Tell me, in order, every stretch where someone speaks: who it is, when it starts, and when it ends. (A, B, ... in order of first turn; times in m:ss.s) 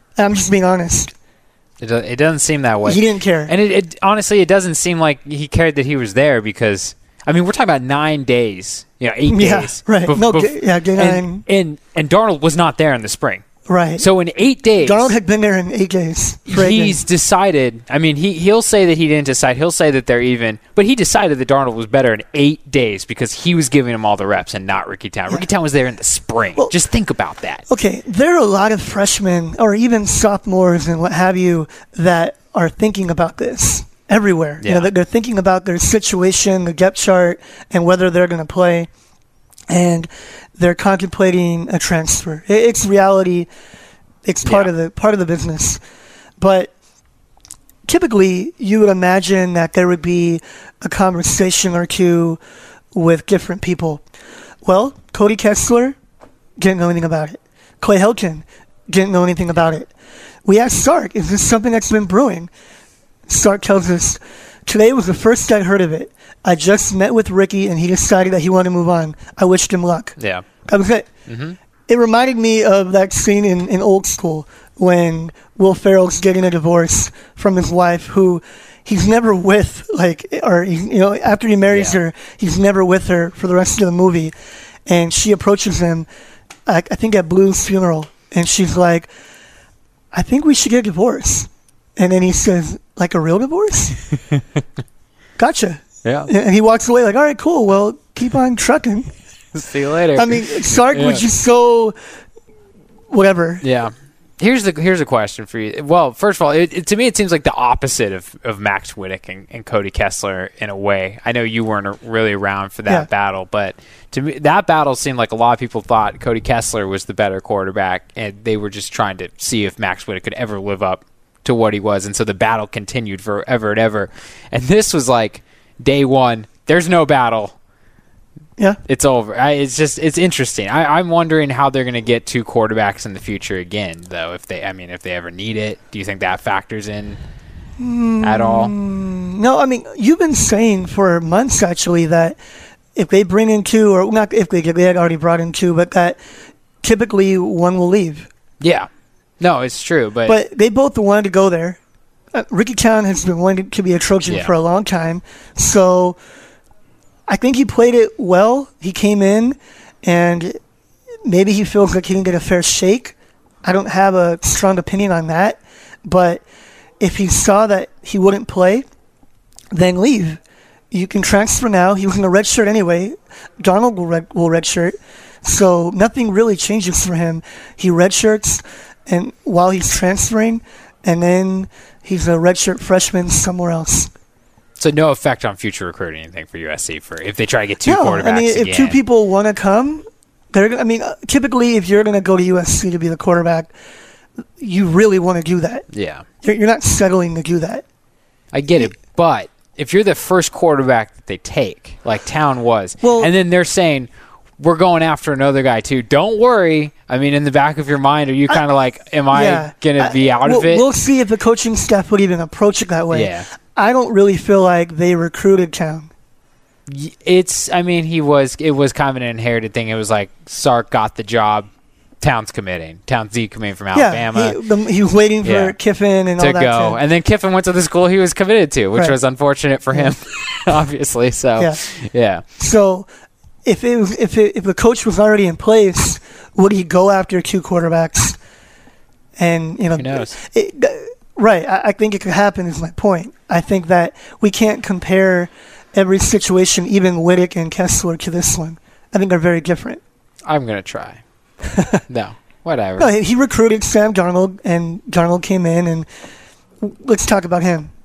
0:00.2-0:01.1 A
0:01.8-0:13.4 B
0:02.8-0:03.5 A
0:09.3-0:11.4 A
0:13.7-0:14.1 A
0:14.0-0:15.1 B
0:14.8-0:17.0 A
0:16.5-0:27.6 B
0:27.7-0:38.9 A
0:34.6-0:34.9 B
0:39.7-0:43.5 A
0:44.2-0:45.8 A
0:44.4-0:44.7 B
0:46.4-0:46.7 A
0:47.9-0:52.4 A
0:52.9-0:54.0 A
0:54.6-0:56.0 A
0:56.6-0:59.9 A
1:00.4-1:02.5 A
1:03.3-1:10.2 A
1:10.2-1:10.4 B
1:10.7-1:11.1 A
1:11.3-1:11.6 B
1:11.9-1:24.3 A
1:21.7-1:22.0 B
1:24.9-1:26.1 A
1:26.7-1:29.1 A
1:30.1-1:34.0 A
1:35.4-1:39.1 A
1:39.5-1:41.2 B
1:40.2-1:42.0 A
1:43.1-1:43.6 A
1:43.6-2:07.6 B
2:08.9-2:17.2 B
2:17.8-2:22.4 A
2:18.2-2:18.7 B
2:23.0-2:26.2 A
2:26.8-2:28.3 A
2:28.6-2:28.9 B
2:29.4-2:30.4 B
2:30.3-2:31.8 A
2:32.3-2:36.2 A
2:37.3-2:40.6 A
2:41.2-2:46.4 A
2:47.0-2:48.9 A
2:49.7-2:50.4 A
2:50.9-3:04.1 A
3:04.8-3:09.0 B
3:07.8-3:13.7 A
3:14.6-3:15.8 A
3:15.9-3:16.2 B
3:16.4-3:17.8 A
3:18.5-3:24.1 B
3:23.0-3:23.3 A
3:24.6-3:30.9 B
3:29.3-3:36.1 A
3:33.1-3:33.5 B
3:36.9-3:41.7 B
3:42.2-3:44.6 B
3:44.0-3:47.0 A
3:45.4-3:45.8 B
3:46.4-3:52.4 B
3:52.6-3:53.1 A
3:53.6-3:58.4 A
3:59.4-4:10.0 A
4:00.0-4:00.4 B
4:10.4-4:11.2 B
4:11.7-4:12.0 A
4:12.1-4:13.1 B
4:13.0-4:16.1 A
4:16.8-4:17.9 A